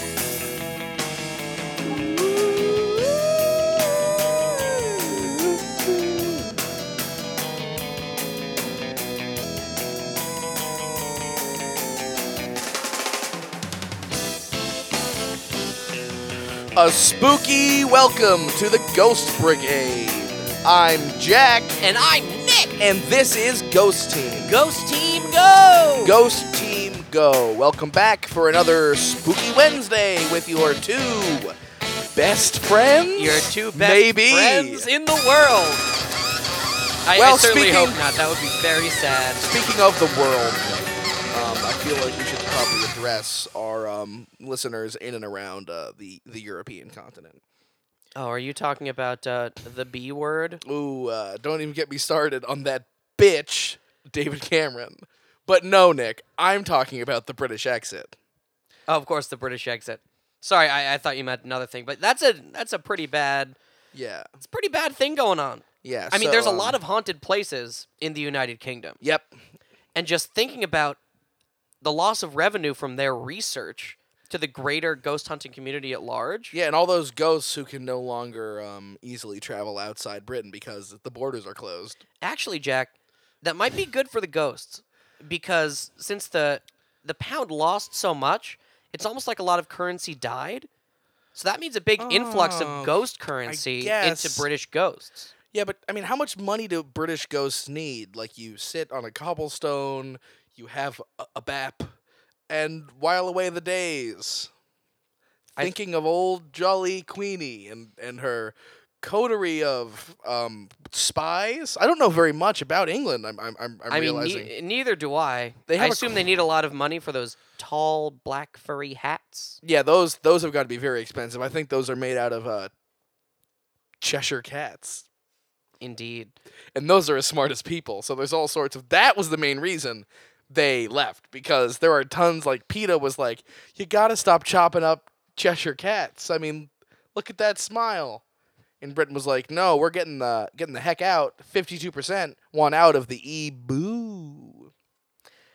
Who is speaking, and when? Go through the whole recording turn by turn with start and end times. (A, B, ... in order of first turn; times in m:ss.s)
0:01.8-0:03.3 A
0:04.5-0:06.4 A
0:16.8-0:21.8 A
0:21.8-0:22.8 B
0:22.8-0:24.6 A
0:24.4-0:26.2 B
0:26.0-0:31.6 A
0:32.2-0:34.9 A
0:33.2-0:35.9 B
0:37.0-0:39.5 B
0:37.2-0:38.0 A
0:39.4-0:47.4 A
0:48.2-0:50.6 B
0:50.6-0:58.1 A
0:58.9-1:03.6 B
1:03.9-1:04.3 A
1:04.4-1:09.0 B
1:05.8-1:06.8 A
1:09.0-1:09.3 A
1:10.0-1:11.0 B
1:11.8-1:16.6 B
1:16.5-1:22.0 A
1:22.2-1:30.7 B
1:31.3-1:35.3 B
1:32.0-1:32.9 A
1:33.4-1:34.5 A
1:35.5-1:41.9 A
1:42.5-1:44.5 A
1:45.6-1:54.5 A
1:53.9-1:59.6 B
1:55.7-1:56.2 A
1:59.6-2:02.7 A
2:04.0-2:05.0 A
2:05.8-2:06.4 B
2:06.7-2:18.2 A
2:18.8-2:24.7 A